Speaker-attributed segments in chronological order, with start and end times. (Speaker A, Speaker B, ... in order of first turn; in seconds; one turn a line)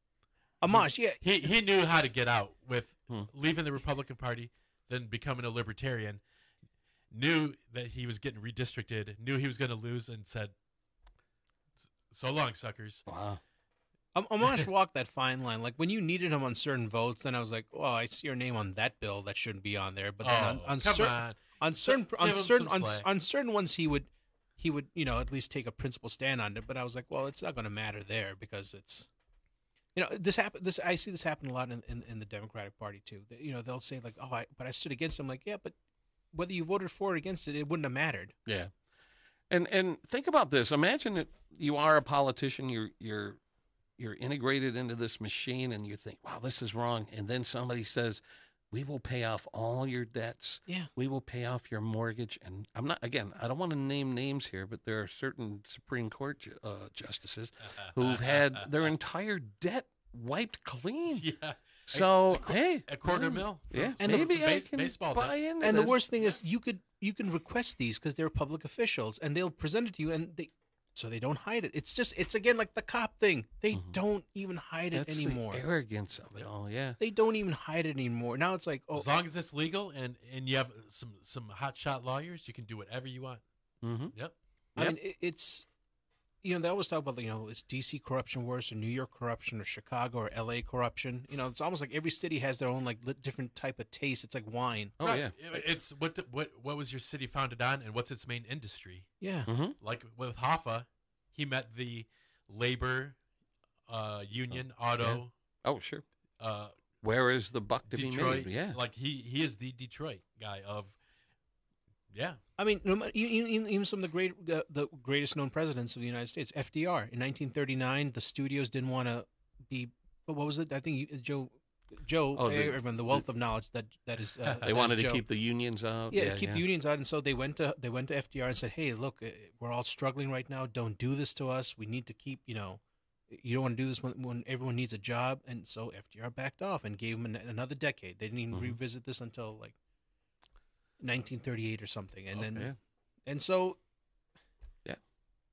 Speaker A: 0.6-1.2
Speaker B: 0.7-6.2
Speaker B: 7.1-10.6
Speaker B: 12.1-13.1
Speaker C: 13.1-13.4
Speaker A: 14.2-29.1
Speaker B: 20.2-23.1
Speaker A: 29.9-35.8
Speaker A: 36.3-38.4
Speaker C: 38.5-38.7
Speaker C: 39.5-43.4
Speaker C: 44.0-61.3
Speaker B: 57.8-58.7
Speaker B: 61.1-65.4
Speaker C: 61.9-66.0
Speaker A: 65.6-75.7
Speaker C: 74.9-77.0
Speaker A: 77.0-79.1
Speaker B: 79.0-83.4
Speaker C: 83.8-84.1
Speaker A: 84.8-85.7
Speaker A: 86.4-95.2
Speaker C: 95.0-95.3
Speaker B: 95.0-99.1
Speaker A: 99.2-99.5
Speaker C: 99.5-99.8
Speaker B: 99.8-103.2
Speaker B: 103.9-105.3
Speaker C: 104.5-106.0
Speaker B: 106.4-106.9
Speaker C: 107.0-108.8
Speaker B: 107.9-111.0
Speaker B: 112.1-112.4
Speaker A: 112.6-125.2
Speaker C: 122.4-123.2
Speaker C: 124.6-126.6
Speaker A: 126.1-139.8
Speaker A: 141.0-142.7
Speaker C: 142.5-142.7
Speaker A: 143.3-143.8